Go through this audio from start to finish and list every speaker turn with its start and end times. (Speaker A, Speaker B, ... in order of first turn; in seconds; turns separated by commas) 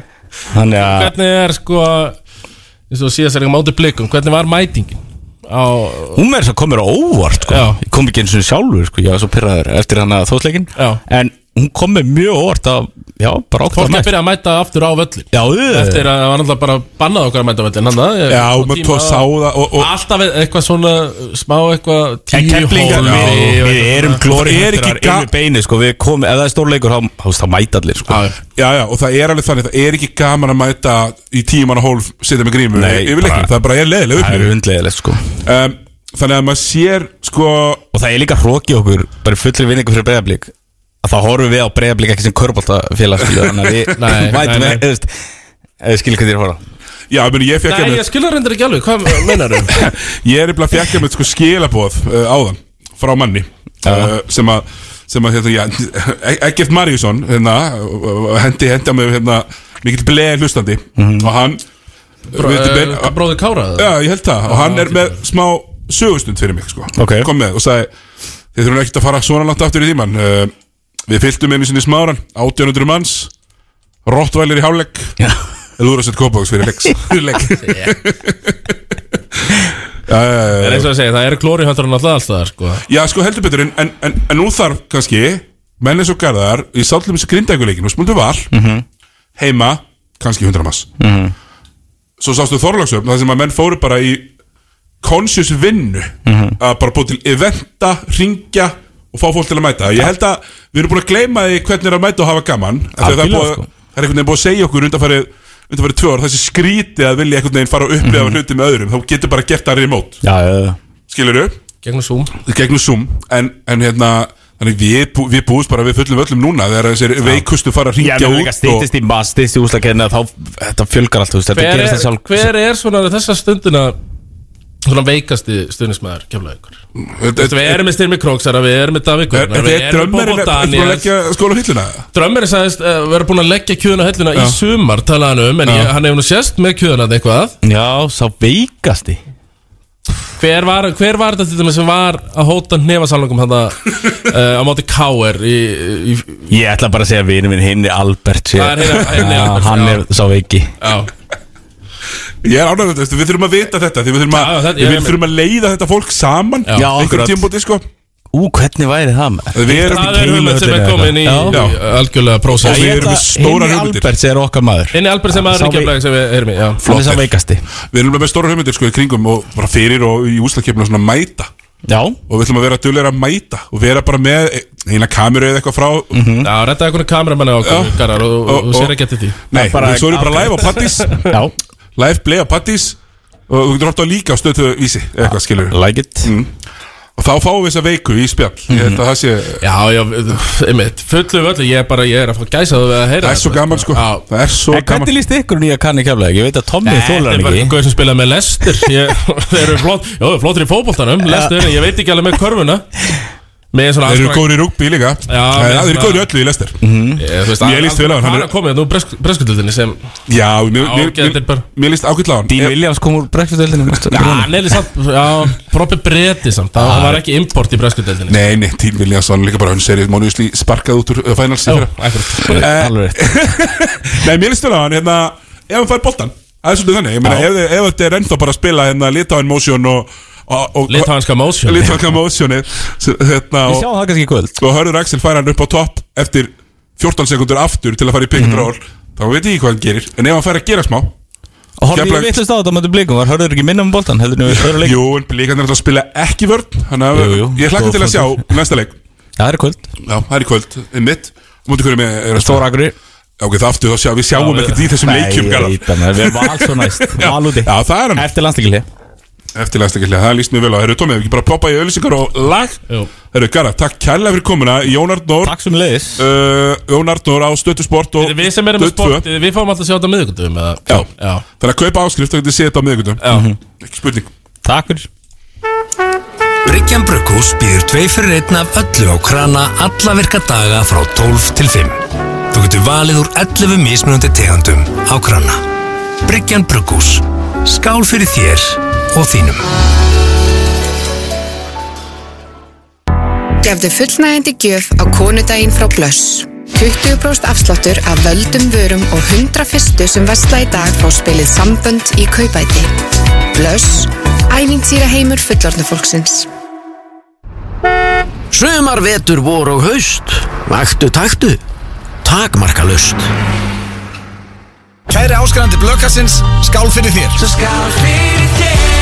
Speaker A: 0.5-1.1, Speaker B: 0.8-2.2, Speaker B: 2.9-6.2, Speaker A: 6.2-14.1, Speaker B: 7.5-7.8, Speaker B: 13.7-19.2, Speaker A: 15.3-16.1, Speaker C: 18.3-19.9, Speaker B: 19.8-24.3, Speaker A: 22.3-28.2, Speaker C: 23.0-23.5, Speaker C: 24.3-25.3, Speaker B: 28.1-28.4, Speaker C: 28.6-34.5, Speaker A: 32.7-33.5, Speaker A: 34.1-35.3, Speaker C: 35.5-37.8, Speaker A: 37.9-40.5, Speaker A: 41.0-45.2, Speaker B: 44.0-44.8, Speaker A: 45.8-46.6, Speaker C: 47.1-48.0, Speaker B: 47.7-49.8, Speaker C: 49.7-61.6, Speaker A: 53.9-54.1, Speaker A: 61.0-61.3, Speaker C: 62.3-63.1, Speaker B: 62.4-63.9, Speaker C: 63.8-67.9, Speaker B: 64.5-65.2, Speaker A: 67.0-67.3, Speaker C: 68.5-70.5, Speaker C: 71.1-73.3, Speaker C: 74.1-75.2, Speaker C: 75.8-78.5, Speaker B: 77.6-77.9, Speaker C: 80.1-80.9, Speaker B: 80.6-82.8, Speaker C: 82.9-88.5, Speaker A: 88.5-88.8, Speaker C: 89.4-90.9, Speaker A: 91.0-91.3, Speaker C: 92.2-94.3, Speaker C: 95.0-110.2, Speaker A: 96.2-96.6, Speaker A: 103.0-103.7, Speaker A: 108.0-108.4, Speaker A: 110.2-110.8, Speaker C: 111.1-111.5, Speaker B: 111.8-112.3, Speaker C: 112.5-118.9, Speaker A: 118.0-122.5, Speaker B: 121.5-124.0, Speaker B: 124.8-126.8, Speaker C: 127.1-127.8, Speaker B: 127.4-131.1, Speaker C: 129.3-132.1, Speaker B: 132.1-137.6, Speaker A: 137.6-139.2, Speaker B: 140.4-146.5, Speaker A: 146.5-150.7, Speaker B: 148.6-150.0, Speaker B: 150.8-151.1, Speaker C: 152.4-157.8, Speaker B: 154.3-155.2, Speaker A: 156.8-157.5, Speaker A: 158.3-161.6, Speaker C: 159.6-160.3, Speaker B: 159.7-163.2, Speaker C: 161.5-161.8, Speaker C: 162.5-164.1, Speaker A: 162.6-165.9, Speaker B: 164.9-166.9, Speaker A: 166.8-167.6, Speaker C: 166.9-167.2, Speaker C: 167.9-171.5, Speaker A: 171.9-172.2, Speaker C: 172.3-176.2, Speaker A: 176.1-176.5, Speaker B: 176.4-179.4, Speaker C: 177.6-178.9, Speaker C: 179.5-181.3, Speaker A: 179.5-180.7, Speaker A: 181.2-181.5, Speaker C: 182.0-183.0, Speaker C: 183.5-186.5, Speaker A: 185.2-186.3, Speaker C: 187.2-189.6, Speaker A: 188.7-189.0, Speaker B: 189.6-194.2, Speaker C: 193.2-195.1, Speaker A: 194.7-197.7, Speaker B: 196.8-202.9, Speaker A: 201.2-201.6, Speaker B: 203.7-204.4, Speaker C: 204.1-206.8, Speaker B: 205.3-206.3, Speaker A: 206.8-207.2, Speaker B: 207.2-210.0, Speaker C: 207.6-208.5, Speaker C: 210.3-212.8, Speaker B: 210.8-211.6, Speaker A: 212.5-214.6, Speaker B: 214.1-218.4, Speaker A: 216.8-217.2, Speaker C: 218.3-221.9, Speaker B: 221.7-222.6, Speaker A: 222.5-223.3, Speaker C: 222.5-231.1, Speaker A: 227.2-227.5, Speaker B: 230.9-232.0, Speaker C: 231.7-233.9, Speaker A: 233.7-234.6, Speaker C: 234.6-241.1, Speaker A: 238.3-238.7, Speaker A: 241.8-245.0, Speaker C: 241.9-242.3, Speaker C: 244.5-248.9, Speaker A: 247.1-248.4, Speaker A: 249.4-249.9, Speaker C: 250.0-252.7, Speaker A: 252.4-252.9, Speaker C: 253.4-258.3, Speaker B: 254.4-254.9, Speaker A: 255.0-258.9, Speaker C: 259.6-262.8, Speaker C: 263.3-265.6, Speaker A: 265.4-266.2, Speaker C: 266.2-269.2, Speaker B: 268.2-271.4, Speaker C: 271.6-273.2, Speaker B: 273.2-273.5, Speaker A: 273.3-273.6, Speaker C: 273.8-274.3, Speaker A: 274.6-275.1, Speaker D: 276.6-282.0, Speaker D: 282.5-285.6, Speaker D: 286.3-289.6, Speaker E: 293.6-302.9, Speaker E: 303.5-306.5, Speaker F: 308.5-311.6, Speaker F: 312.2-313.3, Speaker G: 315.1-317.4